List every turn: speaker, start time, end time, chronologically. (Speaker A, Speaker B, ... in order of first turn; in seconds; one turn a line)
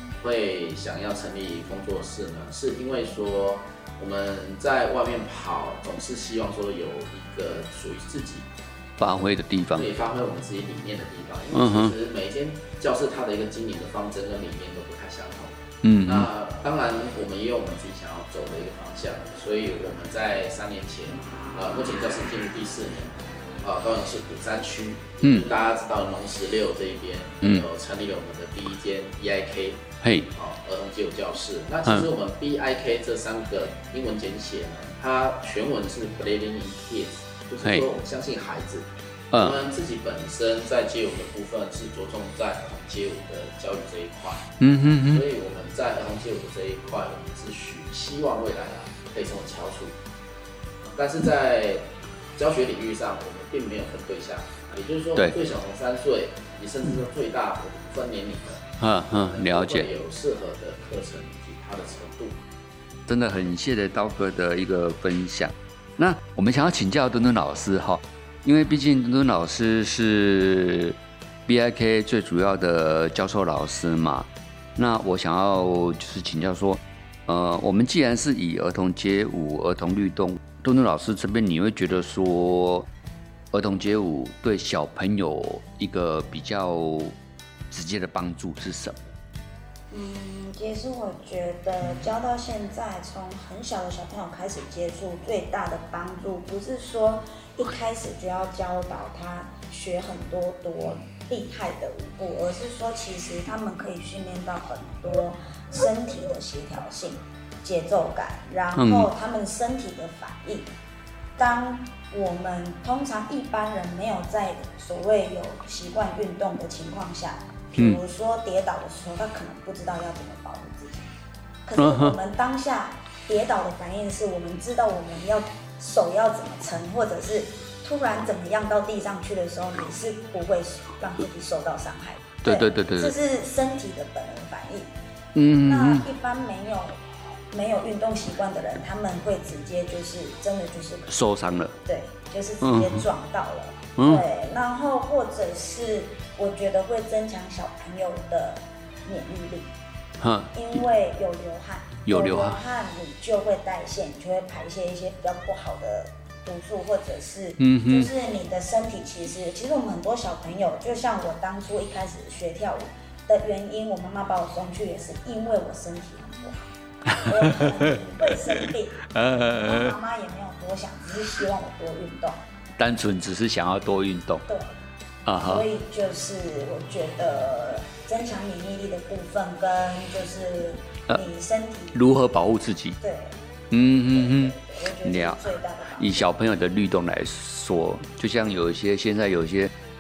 Speaker A: 0.2-8.5
Speaker B: 9.0-9.9
Speaker A: 9.8-15.6
Speaker B: 11.5-11.9
Speaker B: 15.8-16.3
Speaker A: 16.1-29.8
Speaker B: 25.2-25.5
Speaker B: 27.4-27.7
Speaker B: 30.0-30.3
Speaker A: 30.3-38.9
Speaker B: 39.3-39.6
Speaker A: 39.4-44.5
Speaker B: 44.6-45.2
Speaker A: 45.1-50.0
Speaker A: 50.8-62.4
Speaker B: 58.8-59.9
Speaker B: 63.1-71.0
Speaker B: 71.5-82.9
Speaker B: 83.5-87.2
Speaker B: 87.7-89.0
Speaker C: 89.9-110.7
Speaker B: 108.8-109.1
Speaker C: 111.4-121.1
Speaker C: 121.7-134.9
Speaker B: 121.8-122.2
Speaker B: 132.4-133.2
Speaker B: 135.3-136.1
Speaker C: 135.7-141.1
Speaker B: 141.1-141.8
Speaker C: 141.9-149.7
Speaker B: 142.6-143.1
Speaker B: 144.0-144.2
Speaker B: 150.2-150.6
Speaker C: 150.5-166.6
Speaker B: 152.1-152.6
Speaker B: 157.6-158.1
Speaker B: 167.1-170.0
Speaker C: 167.1-172.4
Speaker B: 172.8-174.4
Speaker C: 174.5-174.8
Speaker B: 175.3-175.7
Speaker C: 175.4-182.0
Speaker B: 181.9-183.0
Speaker C: 183.0-183.3
Speaker B: 183.7-185.4
Speaker C: 184.2-186.2
Speaker B: 186.0-189.7